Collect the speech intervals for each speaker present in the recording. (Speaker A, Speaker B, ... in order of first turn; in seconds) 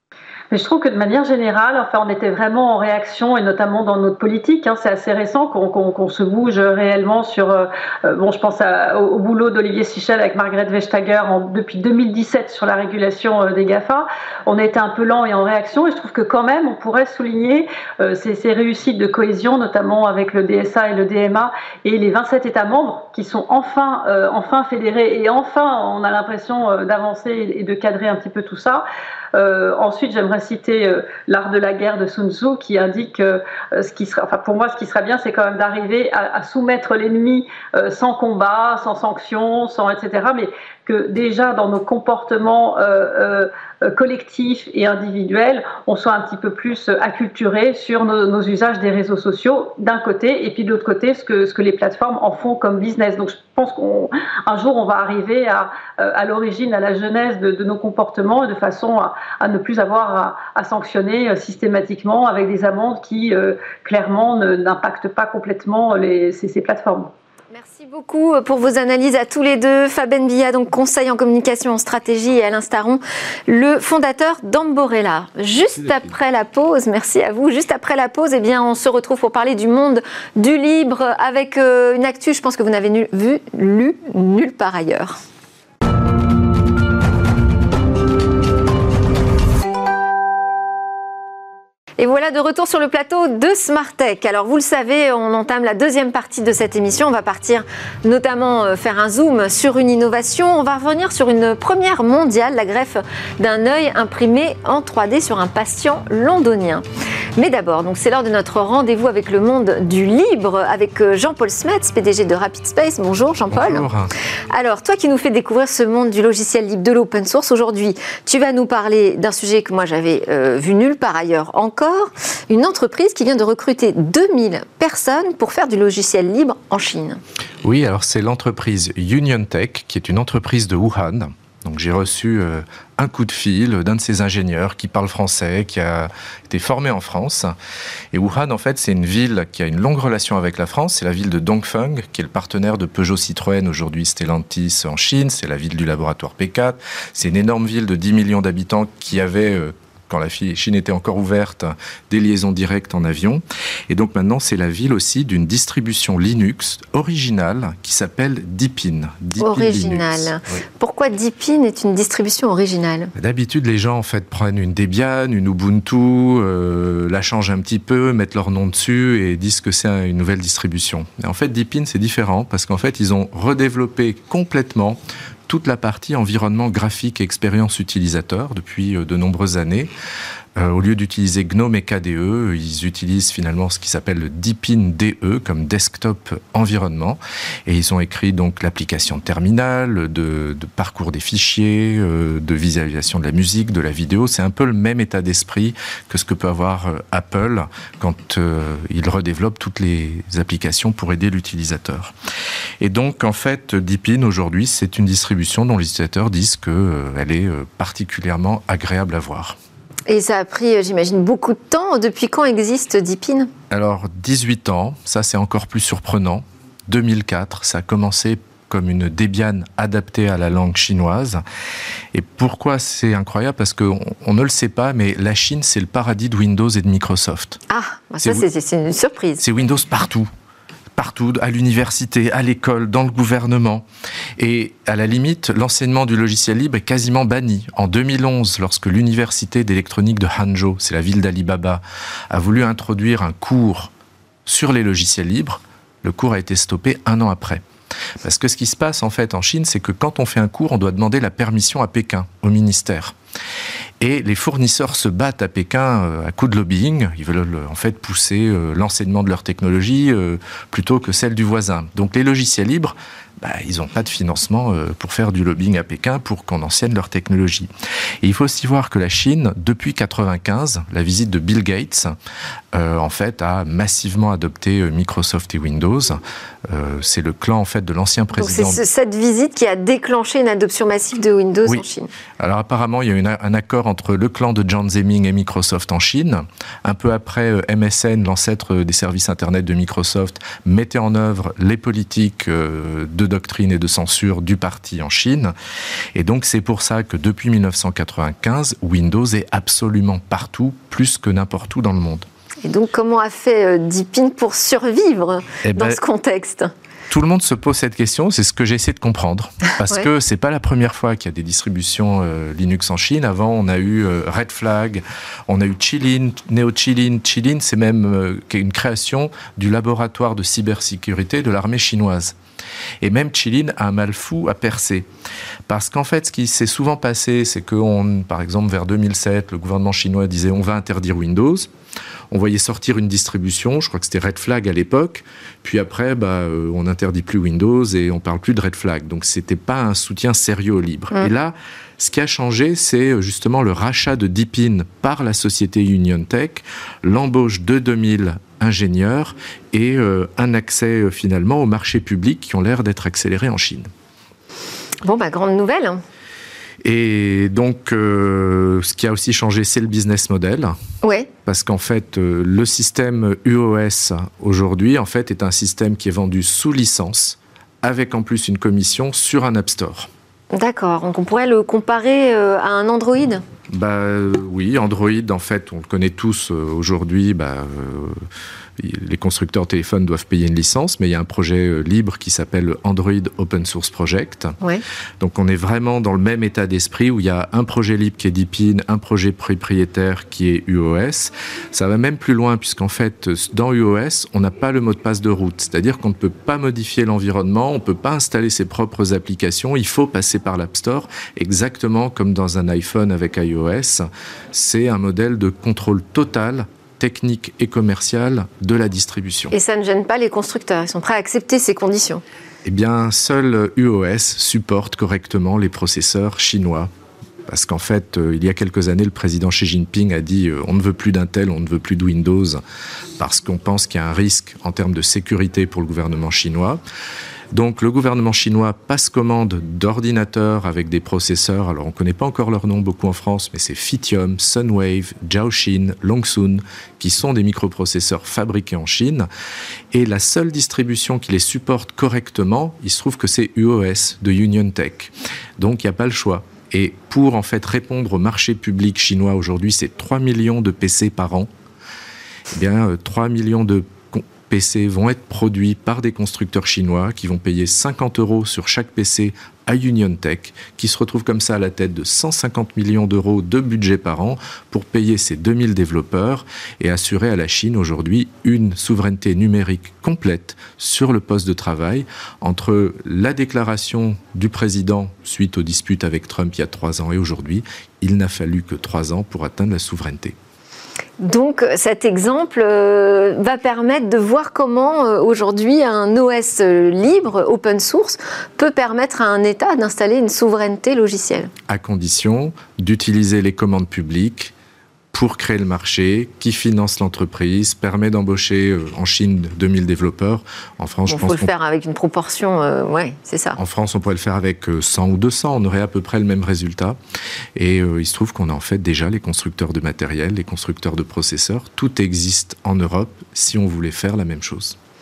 Speaker A: 0.5-67.1
Speaker B: 67.5-85.2, 92.0-106.8, 107.4-113.9, 114.5-127.2, 159.4-163.1, 210.1-213.5, 227.7-229.4, 278.4-282.1, 302.6-306.7, 355.0-356.0, 361.0-361.3, 370.5-373.4, 409.5-412.2, 481.2-491.5, 501.1-503.6
Speaker C: 113.5-114.1, 127.6-137.5, 138.1-160.3, 163.2-179.9, 180.6-202.1, 202.8-209.6, 213.7-221.4, 222.1-227.6, 229.4-230.3, 231.0-233.8, 234.4-243.9, 244.5-247.6, 248.2-253.2, 254.0-267.7, 268.2-272.1, 272.7-278.8, 282.4-295.5, 296.1-302.3, 305.6-306.0, 307.1-322.4, 323.0-325.1, 325.7-331.7, 332.3-353.9, 356.8-360.7, 361.4-370.1, 373.7-378.2, 378.8-384.6, 385.2-409.5, 412.6-416.9, 417.5-422.6, 423.2-426.8, 427.5-439.3, 439.9-451.5, 452.5-480.4, 491.7-494.5, 495.1-501.5, 503.6-507.0, 507.6-514.8